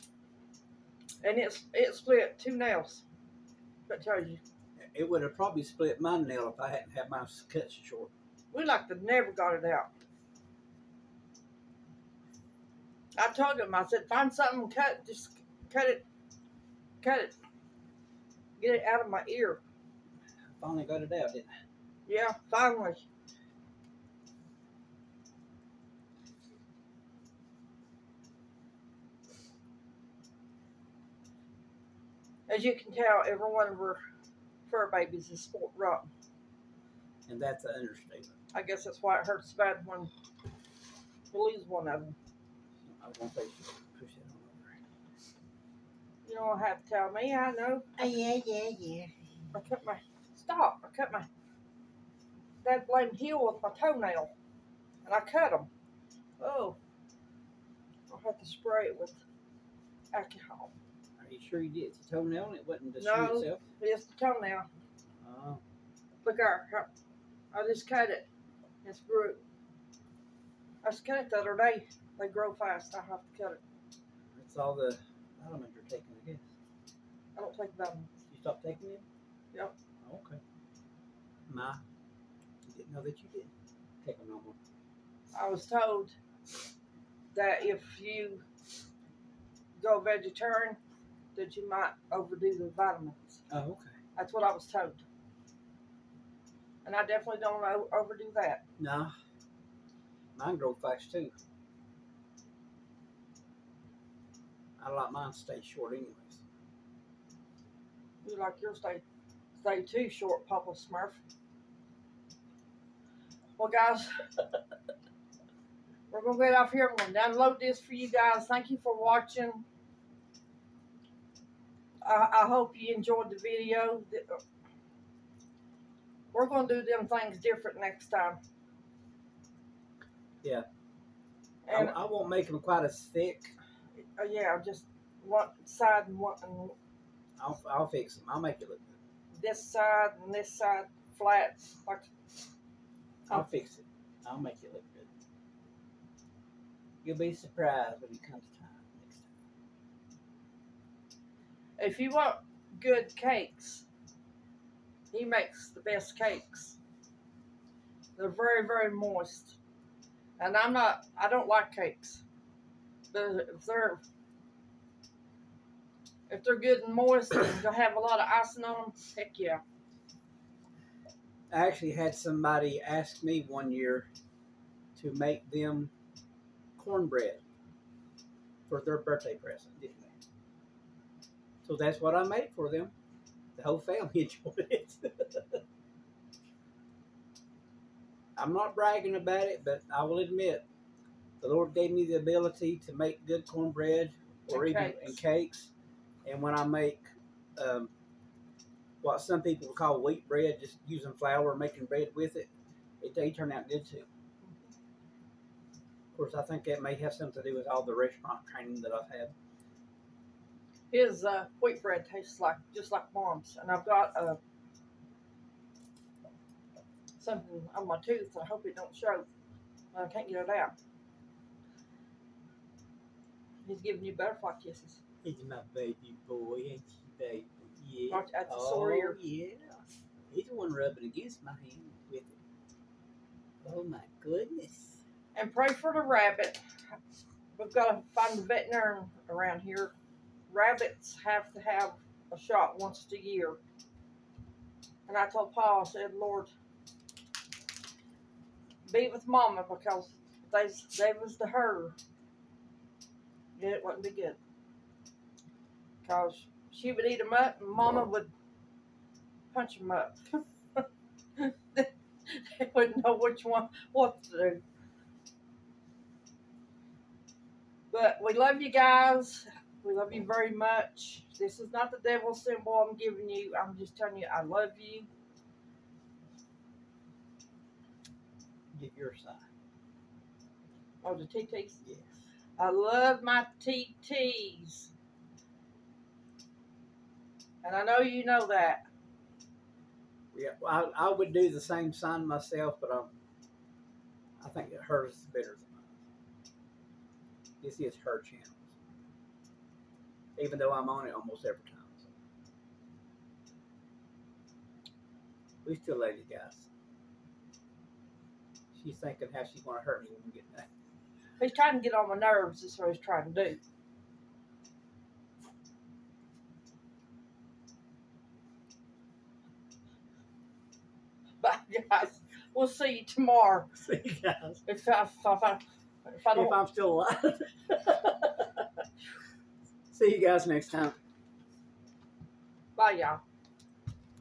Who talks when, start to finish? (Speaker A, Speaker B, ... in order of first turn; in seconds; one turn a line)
Speaker A: 1.2-3.0
Speaker A: 3.9-4.4
Speaker B: 4.9-8.1
Speaker A: 8.5-9.9
Speaker A: 13.1-16.0
Speaker A: 17.0-17.3
Speaker A: 18.6-19.6
Speaker B: 20.6-21.5
Speaker A: 22.1-23.0
Speaker A: 32.5-34.0
Speaker A: 34.7-36.1
Speaker B: 37.3-38.3
Speaker A: 38.5-40.1
Speaker A: 41.3-42.1
Speaker B: 42.9-44.8
Speaker A: 46.2-48.1
Speaker B: 48.0-49.1
Speaker A: 49.5-51.3
Speaker A: 52.6-54.3
Speaker A: 55.0-55.7
Speaker A: 56.4-56.8
Speaker A: 58.1-59.2
Speaker A: 60.1-60.7
Speaker B: 61.2-63.6
Speaker A: 63.0-64.7
Speaker B: 65.2-65.6
Speaker A: 66.2-66.9
Speaker A: 67.5-68.3
Speaker A: 68.8-69.4
Speaker A: 70.8-73.6
Speaker B: 74.3-76.4
Speaker A: 77.3-78.1
Speaker B: 78.3-79.0
Speaker B: 80.0-80.4
Speaker B: 81.5-81.8
Speaker B: 82.7-83.5
Speaker B: 84.0-84.6
Speaker A: 85.3-86.1
Speaker A: 87.3-88.4
Speaker A: 89.8-90.8
Speaker A: 91.3-93.4
Speaker B: 93.5-93.9
Speaker A: 94.2-95.0
Speaker A: 96.8-98.6
Speaker B: 98.8-99.1
Speaker B: 100.3-101.3
Speaker B: 104.8-106.4
Speaker A: 108.2-109.0
Speaker A: 109.5-111.2
Speaker A: 113.6-114.4
Speaker A: 116.1-119.6
Speaker A: 122.0-124.4
Speaker A: 126.3-128.4
Speaker A: 131.6-131.9
Speaker B: 131.7-133.5
Speaker A: 134.0-136.7
Speaker B: 137.4-139.0
Speaker A: 139.3-142.1
Speaker B: 143.3-145.1
Speaker B: 147.0-149.3
Speaker A: 151.8-153.8
Speaker A: 155.1-156.8
Speaker A: 158.2-159.6
Speaker A: 160.4-162.2
Speaker A: 163.1-164.0
Speaker A: 166.3-169.6
Speaker B: 171.5-174.1
Speaker B: 174.9-175.9
Speaker B: 176.8-177.4
Speaker B: 178.7-180.2
Speaker B: 181.6-182.9
Speaker B: 183.6-185.6
Speaker B: 188.3-190.6
Speaker B: 191.4-195.7
Speaker A: 194.5-195.2
Speaker B: 196.2-197.9
Speaker B: 199.0-202.5
Speaker B: 203.0-204.1
Speaker B: 206.1-209.3
Speaker A: 210.9-214.4
Speaker A: 217.2-219.3
Speaker A: 219.9-220.7
Speaker A: 223.6-225.0
Speaker B: 225.2-232.4
Speaker A: 228.1-229.2
Speaker B: 233.6-235.0
Speaker A: 235.3-236.9
Speaker A: 237.5-239.9
Speaker A: 240.5-243.6
Speaker A: 245.1-246.5
Speaker A: 248.9-251.9
Speaker A: 253.6-254.4
Speaker A: 256.0-258.3
Speaker A: 259.5-260.8
Speaker A: 261.4-264.6
Speaker A: 267.9-275.1
Speaker B: 278.7-279.4
Speaker A: 281.0-281.8
Speaker B: 281.8-282.1
Speaker A: 282.6-284.9
Speaker A: 287.6-288.9
Speaker B: 290.3-293.1
Speaker B: 294.4-295.9
Speaker B: 297.6-298.7
Speaker B: 300.4-302.1
Speaker B: 305.6-306.7
Speaker B: 308.7-310.7
Speaker A: 311.4-313.6
Speaker A: 321.4-323.7
Speaker B: 323.8-324.6
Speaker A: 324.6-326.6
Speaker B: 326.3-328.6
Speaker B: 329.9-330.9
Speaker A: 332.8-333.2